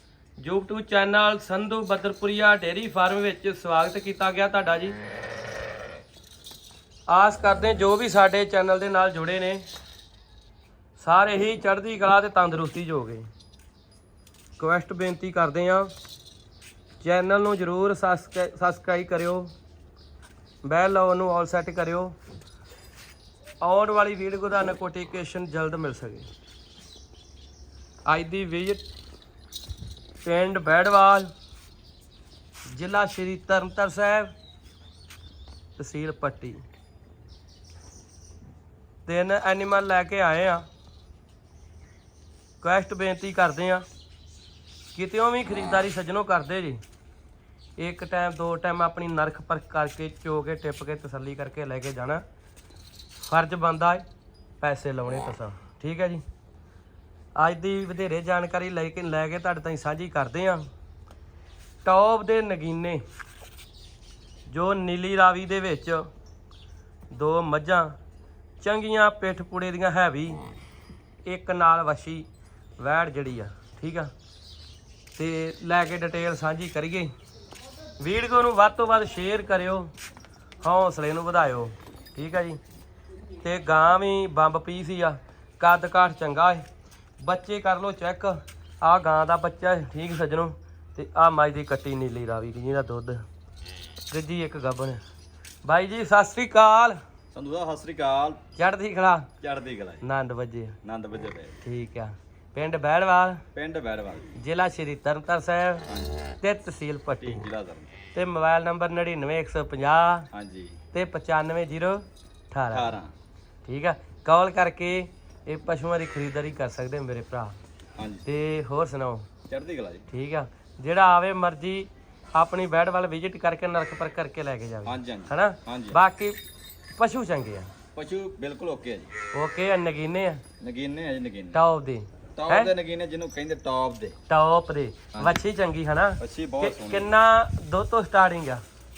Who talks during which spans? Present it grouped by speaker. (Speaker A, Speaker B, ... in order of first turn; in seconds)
Speaker A: 0.4-5.0, 7.1-9.7, 11.0-13.3, 14.6-15.9, 17.0-19.5, 20.6-22.1, 23.6-26.3, 28.1-28.8, 30.2-31.3, 32.7-34.3, 35.8-36.6, 39.1-40.6, 42.6-43.8, 44.9-46.8, 47.8-52.2, 53.3-54.0, 54.6-56.2, 57.4-60.7, 61.9-63.0, 64.5-66.1, 67.1-67.9, 68.6-70.4, 71.2-72.3, 72.8-74.1, 75.2-77.1, 78.0-79.9, 80.6-82.6, 83.4-86.6, 87.2-93.2, 94.1-95.0, 95.6-97.0, 98.6-99.3, 100.0-100.8, 101.6-103.4, 104.4-105.8, 106.4-107.5, 108.1-110.3, 110.9-113.0, 113.7-117.6, 118.3-119.3, 120.1-126.4, 127.0-127.7, 129.3-130.4, 131.5-132.7, 134.3-138.6
Speaker B: 97.3-98.4, 99.4-100.0, 100.8-101.6, 103.5-104.4, 105.9-106.2, 107.2-107.9, 110.3-110.8, 112.7-113.1, 118.0-118.3, 119.5-120.0, 124.8-126.0, 128.0-129.1, 130.6-131.6, 132.4-134.2, 135.1-135.4, 136.2-137.2